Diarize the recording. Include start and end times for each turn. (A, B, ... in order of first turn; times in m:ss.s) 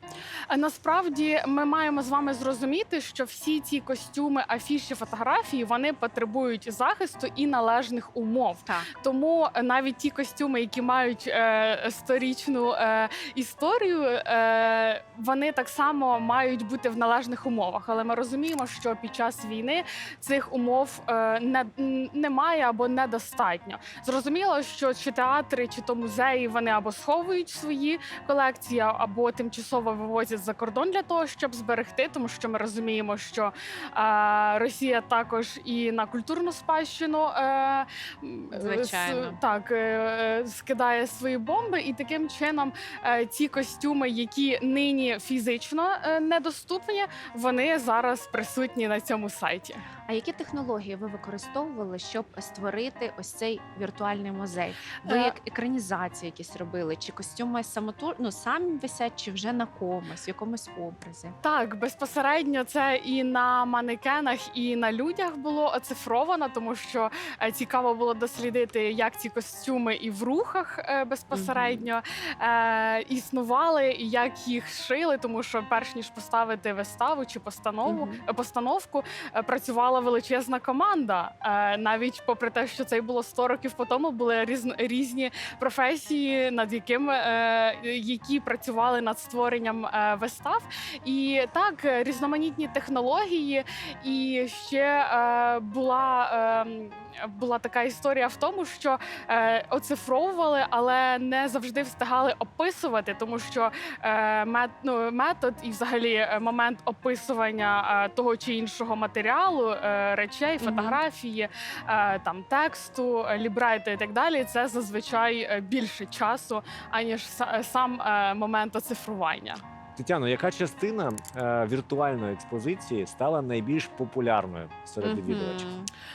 0:00.5-0:49.8 A
0:08.6-0:08.9 B
0:38.5-0:39.4 B
0:50.1-1:01.4 B
0:55.0-0:55.3 A
1:01.4-1:59.6 A
1:11.3-1:11.9 B
1:17.8-1:18.2 B
1:50.6-1:51.0 B
2:00.0-2:05.7 C
2:05.0-2:05.9 B